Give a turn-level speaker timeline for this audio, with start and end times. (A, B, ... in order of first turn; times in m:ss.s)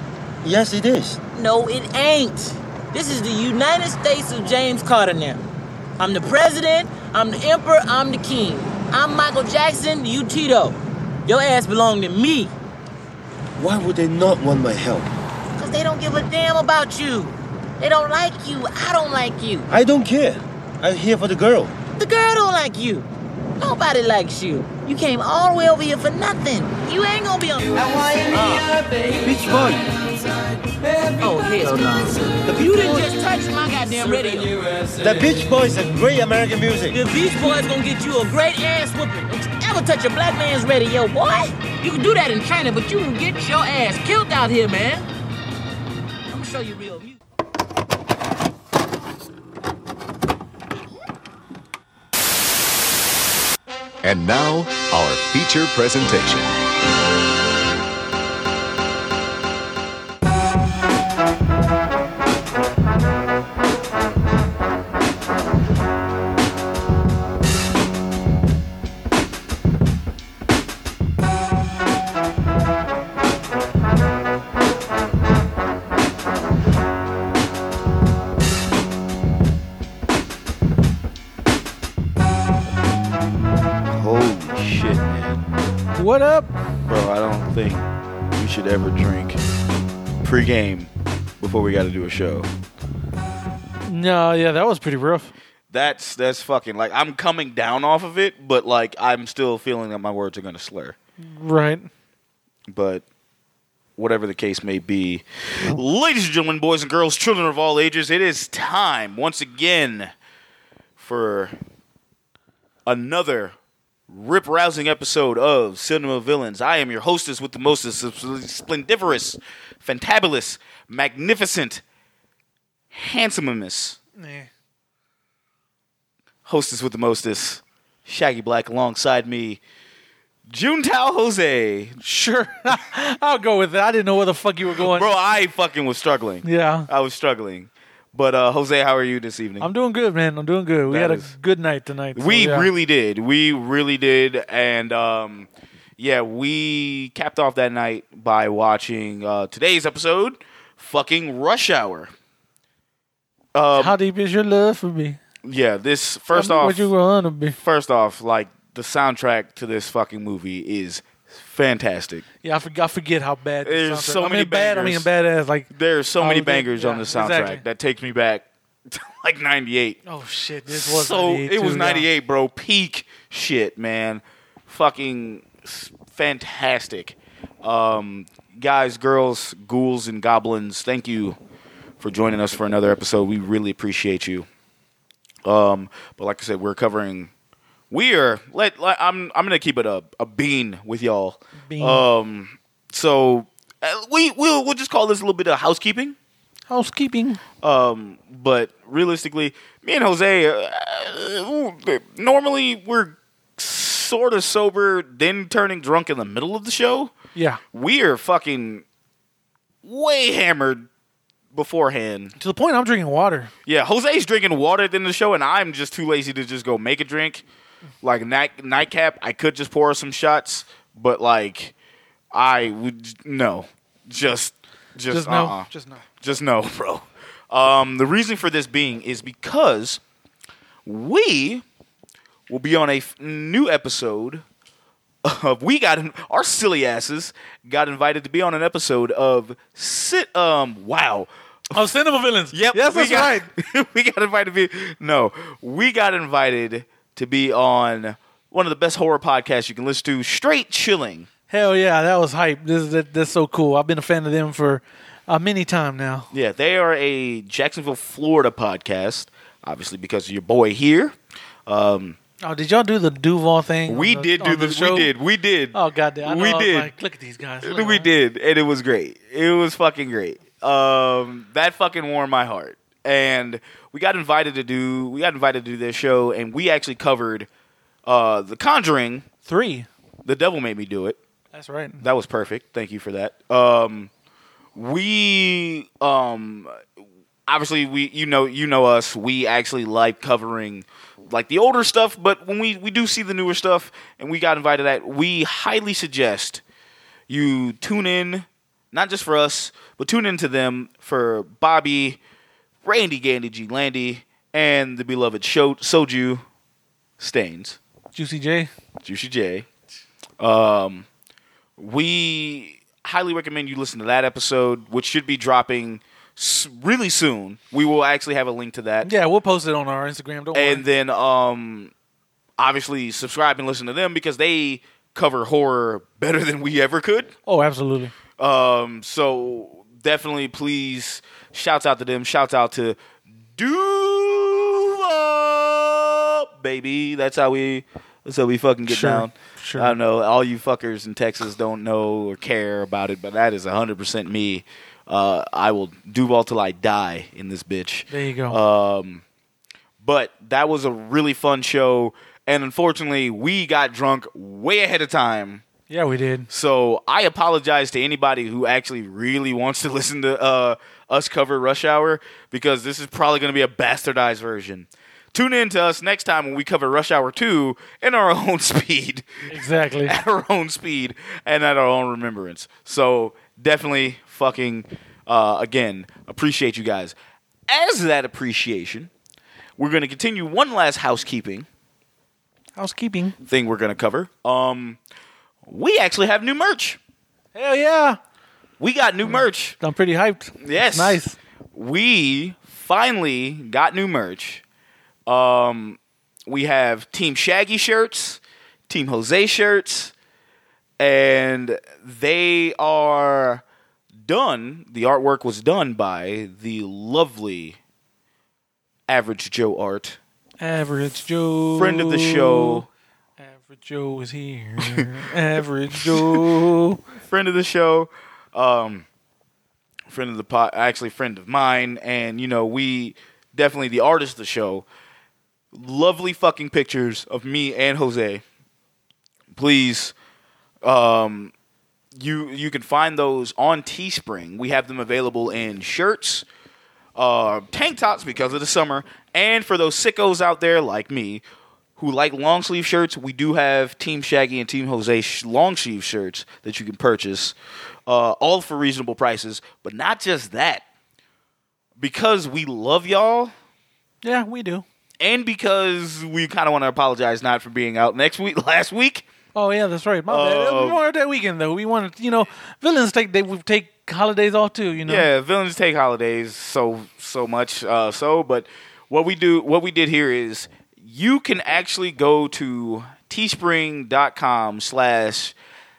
0:00.4-0:01.2 A
0:01.3-0:05.4 B
0:06.0-0:12.5 B
0:13.6-0:15.1 A
0:15.6-0:19.7 B
0:19.7-0:21.7 A
0:22.0-0:23.1 B
0:23.6-0:28.3 B
0:28.3-0:28.7 A
0:29.2-0:30.0 A
0:31.2-0:34.6 B
0:35.0-0:37.0 A
0:36.9-0:45.1 B
0:46.3-0:47.2 B
0:54.0-0:56.5 C
1:23.9-1:25.5 D
1:26.0-1:26.5 E
1:26.9-1:29.4 D
1:30.2-1:32.5 D
1:33.9-1:35.3 E
1:35.7-1:41.0 D
1:41.2-1:41.9 E
1:42.7-1:43.0 D
1:44.0-1:50.1 D
1:51.0-1:51.6 D
1:52.9-1:53.5 D
1:54.1-2:01.8 D
2:02.9-2:04.0 D
2:04.2-2:04.5 E
2:06.5-2:09.6 D
2:10.5-2:12.0 D
2:12.0-2:15.1 E
2:14.8-2:19.7 D
2:16.4-2:16.9 E
2:19.6-2:22.7 E
2:20.9-2:21.3 D
2:22.2-2:32.1 D
2:33.6-2:34.0 D
2:33.7-2:35.2 E
2:35.4-2:36.9 D
2:36.3-2:37.6 E
2:37.5-2:42.2 D
2:42.4-2:47.6 E
2:43.6-2:45.1 D
2:45.7-2:50.0 D
2:50.1-2:52.1 E
2:50.7-3:01.4 D
3:02.0-3:04.5 D
3:05.4-3:07.3 D
3:07.9-3:16.2 D
3:11.7-3:12.1 E
3:16.7-3:17.4 E
3:17.6-3:27.1 D
3:27.4-3:27.6 E
3:27.7-3:28.8 D
3:29.8-3:30.9 D
3:31.5-3:32.4 D
3:32.4-3:33.5 E
3:33.7-3:37.4 D
3:38.0-3:41.7 D
3:42.3-3:45.7 D
3:45.1-3:46.0 E
3:46.2-3:50.0 D
3:50.8-3:51.6 D
3:52.5-3:54.4 D
3:55.2-4:01.7 D
4:01.7-4:03.5 E
4:02.5-4:11.3 D
4:11.5-4:16.3 E
4:16.3-4:21.2 D
4:21.7-4:22.2 D
4:22.4-4:25.1 E
4:23.9-4:26.9 D
4:25.7-4:28.1 E
4:27.6-4:37.5 D
4:38.1-4:39.3 D
4:39.5-4:39.9 E
4:40.2-4:41.2 D
4:41.5-4:42.0 E
4:42.0-4:44.1 D
4:44.8-4:46.8 D
4:47.5-4:56.6 D
4:57.3-5:02.2 D
5:02.8-5:06.4 D
5:07.2-5:07.8 D
5:08.2-5:08.7 E
5:09.0-5:09.7 D
5:10.4-5:11.1 D
5:11.8-5:19.1 D
5:19.0-5:20.8 E
5:20.5-5:21.9 D
5:22.6-5:27.3 D
5:27.5-5:28.1 E
5:28.4-5:33.0 D
5:33.6-5:49.2 D
5:38.9-5:40.0 E
5:48.1-5:48.6 E
5:50.0-5:55.6 D
5:55.9-5:56.5 E
5:56.5-6:09.5 D
6:09.5-6:10.2 E
6:10.0-6:17.2 D
6:17.7-6:19.1 D
6:19.8-6:21.7 D
6:22.8-6:23.4 E
6:23.5-6:25.0 D
6:25.7-6:27.0 D
6:27.6-6:28.2 E
6:28.8-6:29.8 D
6:29.3-6:31.4 E
6:30.6-6:31.2 D
6:31.7-6:34.6 D
6:35.3-6:40.1 D
6:41.0-6:43.6 D
6:44.3-6:47.8 D
6:49.1-6:50.2 D
6:50.6-6:52.9 E
6:51.8-6:52.9 D
6:53.4-6:57.0 E
6:56.0-6:56.4 D
6:57.2-6:59.1 D
7:00.1-7:04.8 D
7:05.7-7:08.4 D
7:09.5-7:10.1 D
7:10.8-7:11.5 D
7:12.2-7:16.5 D
7:17.2-7:21.4 D
7:22.0-7:27.6 D
7:28.1-7:30.8 D
7:32.0-7:33.5 D
7:34.2-7:34.8 E
7:35.2-7:39.3 D
7:39.6-7:45.3 E
7:40.3-7:41.0 D
7:45.1-7:55.6 D